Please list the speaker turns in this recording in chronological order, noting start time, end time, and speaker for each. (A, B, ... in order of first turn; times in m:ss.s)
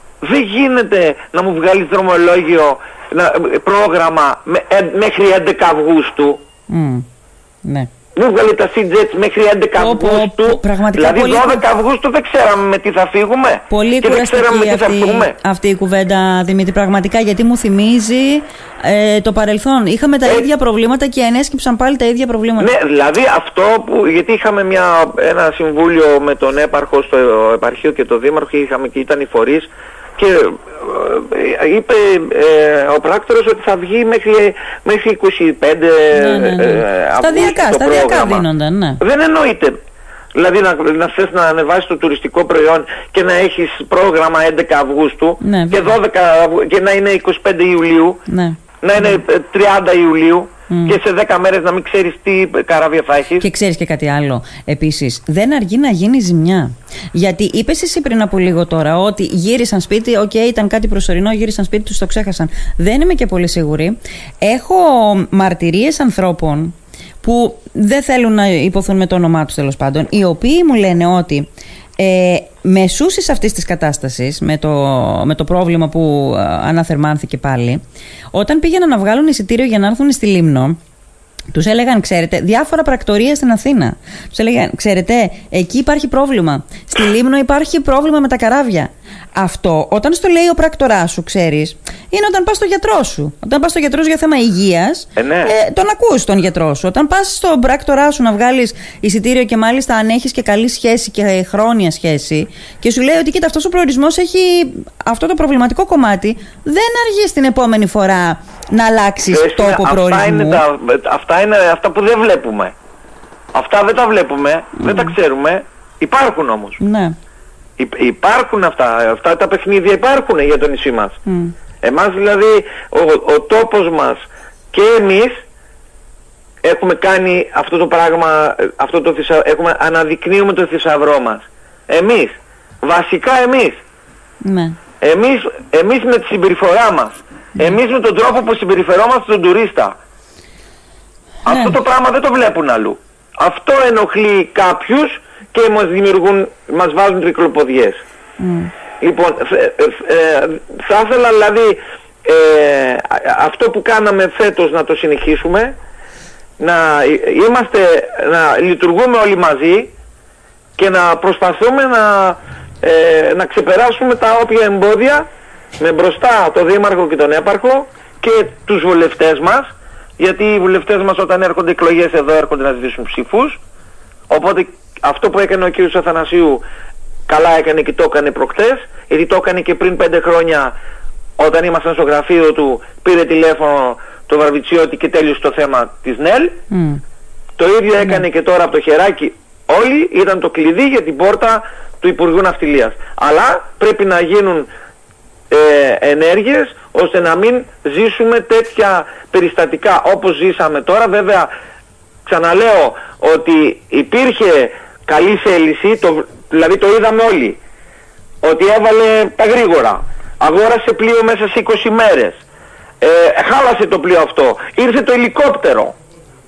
0:00.2-0:06.4 A
0:06.7-0:07.0 B
0:08.1-0:15.3 A
0:09.8-0:11.6 B
0:13.7-0:22.7 B
0:22.6-0:38.4 A
0:36.1-0:39.0 B
0:39.0-0:39.8 A
0:40.3-0:48.2 A
0:45.4-0:45.9 B
0:48.3-0:48.6 B
0:48.8-0:53.5 A
0:50.7-0:51.0 B
0:53.4-1:11.5 B
1:12.0-1:17.8 B
1:18.3-1:20.8 B
1:21.5-1:50.6 B
1:35.2-1:35.5 A
1:49.3-1:52.7 A
1:53.5-1:56.8 A
1:54.8-1:55.1 B
1:56.8-1:57.1 B
1:57.8-2:01.2 A
2:01.2-2:01.5 B
2:01.8-2:04.2 A
2:04.7-2:05.4 A
2:06.6-2:13.8 A
2:14.4-2:14.8 B
2:15.0-2:20.0 A
2:21.4-2:21.8 B
2:21.4-2:28.0 A
2:28.4-2:28.7 B
2:29.0-2:35.7 A
2:36.6-2:39.9 A
2:40.8-2:45.2 A
2:45.8-2:49.7 A
2:50.2-2:53.6 A
2:54.3-2:56.6 A
2:57.3-3:00.7 A
3:01.4-3:06.6 A
3:06.7-3:07.0 B
3:07.6-3:14.7 A
3:15.5-3:21.5 A
3:22.2-3:27.6 A
3:28.4-3:32.4 A
3:33.0-3:35.9 A